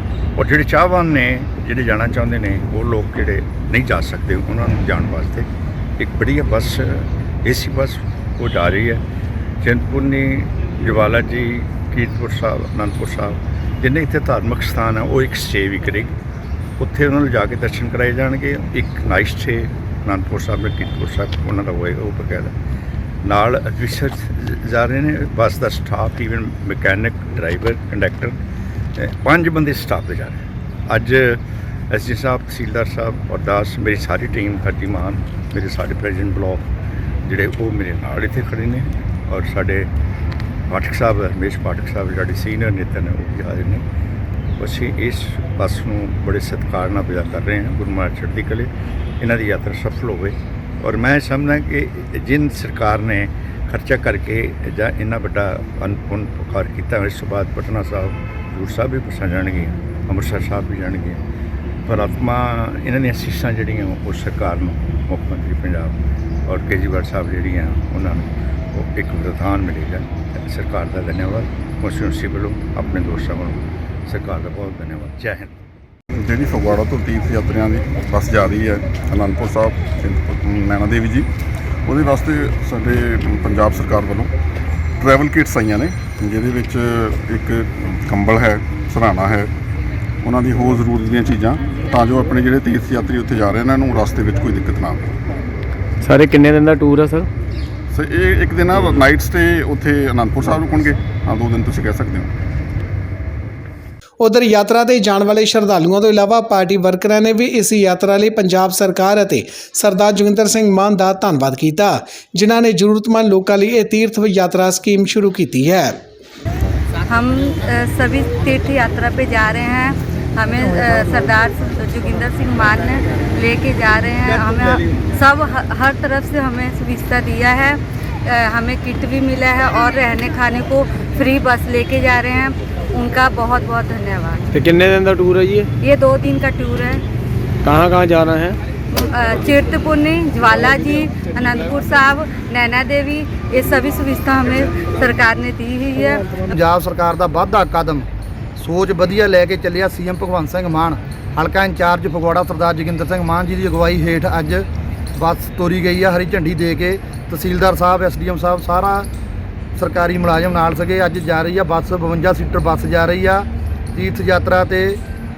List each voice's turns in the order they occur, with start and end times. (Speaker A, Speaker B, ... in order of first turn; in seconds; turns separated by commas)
Speaker A: 0.3-9.0, Speaker A: 9.6-16.1, Speaker A: 16.8-22.5, Speaker A: 23.2-28.4, Speaker A: 29.0-36.6, Speaker A: 37.2-39.9, Speaker A: 40.7-43.8, Speaker A: 44.6-61.2, Speaker A: 61.9-65.9, Speaker A: 66.5-75.5, Speaker B: 76.2-81.3, Speaker B: 81.8-84.3, Speaker B: 85.0-89.5, Speaker B: 90.2-95.0, Speaker C: 96.0-97.3, Speaker B: 97.9-102.3, Speaker D: 104.2-116.0, Speaker E: 117.1-134.4, Speaker C: 134.5-135.7, Speaker E: 135.8-137.0, Speaker C: 137.6-138.6, Speaker E: 138.9-146.4, Speaker F: 146.4-148.1, Speaker F: 148.6-159.1, Speaker F: 159.8-165.0